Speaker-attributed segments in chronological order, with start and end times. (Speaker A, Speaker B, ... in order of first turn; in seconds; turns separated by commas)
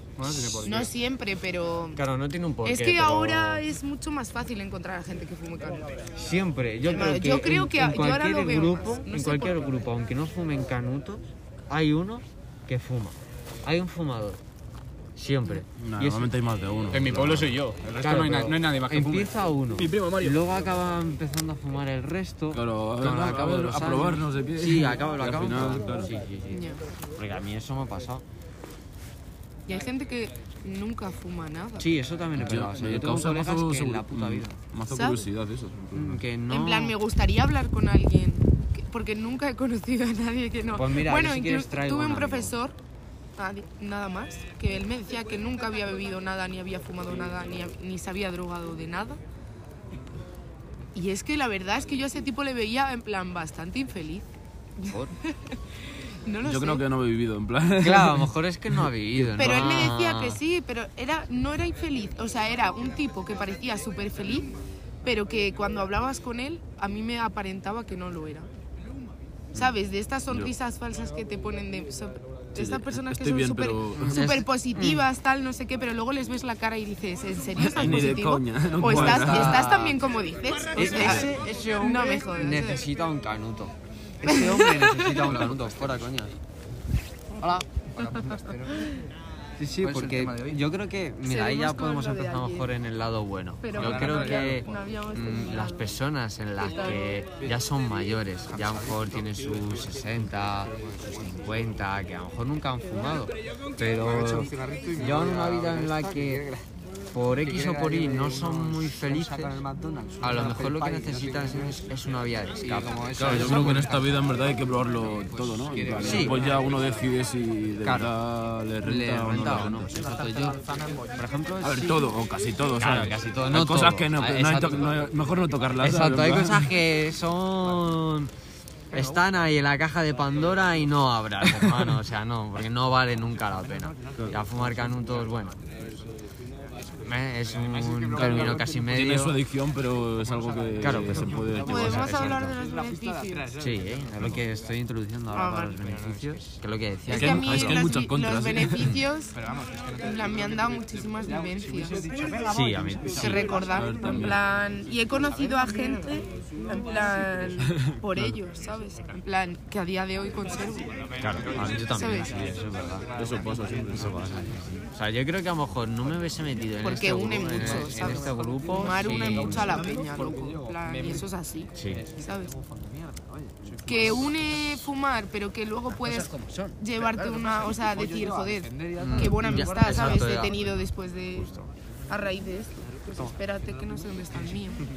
Speaker A: 0.2-0.9, Speaker B: 0.2-0.7, Speaker C: 0.6-2.0, Speaker B: 1.9-3.6, Speaker C: 2.6-6.0, Speaker B: 6.1-14.4, Speaker C: 6.9-9.6, Speaker B: 15.2-16.3, Speaker D: 15.8-17.6, Speaker A: 16.9-19.3, Speaker B: 17.1-17.4, Speaker B: 18.0-28.2, Speaker D: 22.5-26.1, Speaker C: 26.5-26.8, Speaker C: 29.7-31.9, Speaker B: 31.8-34.6, Speaker D: 32.4-36.2, Speaker C: 34.9-35.3, Speaker B: 35.9-37.0, Speaker C: 36.5-42.8, Speaker B: 40.7-42.5, Speaker C: 43.4-49.2, Speaker C: 50.9-55.6, Speaker B: 54.9-55.1, Speaker C: 56.2-56.8, Speaker D: 56.4-59.6, Speaker B: 57.8-60.4, Speaker C: 59.4-68.5, Speaker C: 69.5-82.8, Speaker D: 72.5-74.3, Speaker B: 74.0-75.1, Speaker D: 77.6-79.7, Speaker B: 78.8-80.0, Speaker B: 80.7-86.4, Speaker C: 84.2-85.2, Speaker B: 87.4-88.4, Speaker C: 88.0-88.9, Speaker B: 89.6-106.5, Speaker C: 91.2-92.7, Speaker C: 93.6-95.9, Speaker C: 96.6-97.1, Speaker B: 107.1-109.6, Speaker B: 110.2-113.9, Speaker D: 113.2-119.9, Speaker B: 116.0-116.4, Speaker B: 117.8-118.1, Speaker B: 118.8-122.1, Speaker D: 121.6-126.7, Speaker B: 122.8-124.9, Speaker B: 125.8-128.3, Speaker B: 128.9-135.6, Speaker B: 136.9-139.4, Speaker D: 138.2-142.2, Speaker B: 140.8-142.6, Speaker C: 141.6-143.6, Speaker B: 143.6-147.8, Speaker C: 145.3-145.8, Speaker C: 147.1-152.0, Speaker D: 147.1-148.9, Speaker B: 152.4-153.5, Speaker C: 153.1-161.0, Speaker D: 153.2-154.4, Speaker D: 157.8-158.3, Speaker B: 161.2-163.1, Speaker C: 161.9-162.4, Speaker D: 163.1-164.3, Speaker B: 163.9-169.8, Speaker C: 166.8-172.6, Speaker B: 171.7-172.1, Speaker B: 173.9-174.2, Speaker C: 173.9-181.5, Speaker B: 179.0-180.8, Speaker B: 181.3-181.7, Speaker C: 182.1-184.8